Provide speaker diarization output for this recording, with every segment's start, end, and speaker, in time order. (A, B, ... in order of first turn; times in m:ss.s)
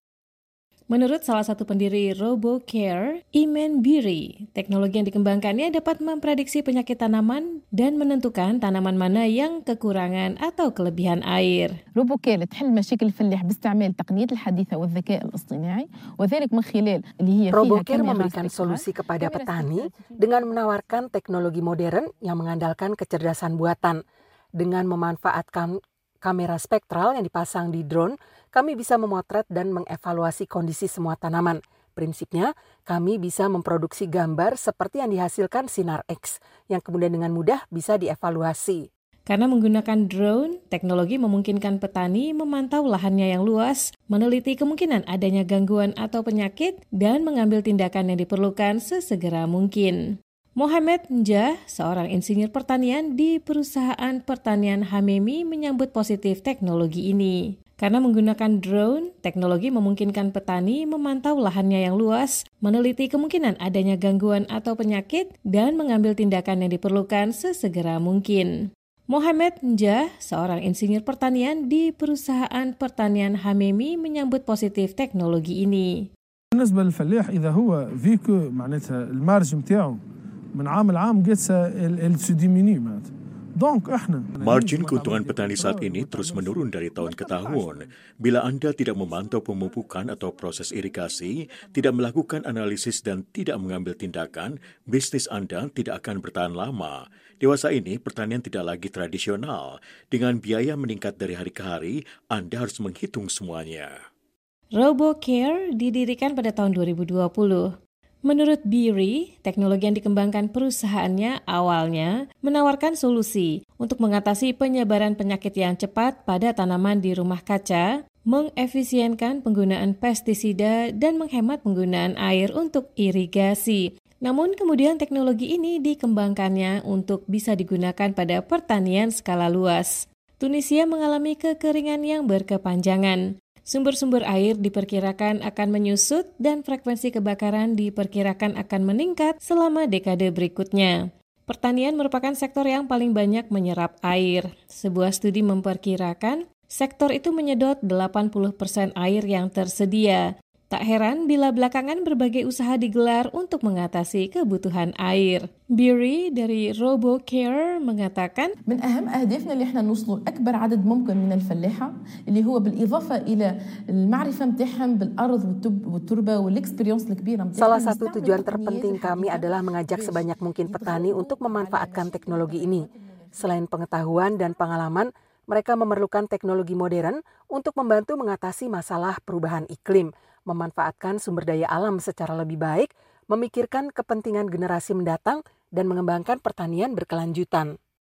0:00.9-0:11.7 A
0:12.0-0:20.9 B
0:17.5-0:24.0 C
0:24.6-0:38.8 C
0:39.3-0:50.0 A
0:50.6-1:08.5 A
1:09.1-1:16.0 A
1:16.5-1:20.0 D
1:20.6-1:27.8 D
1:24.4-1:43.9 E
1:44.8-1:47.7 A
1:48.3-2:21.0 A
2:21.5-2:38.5 A
2:38.7-2:54.3 B
2:47.6-2:52.9 C
2:53.4-3:07.7 C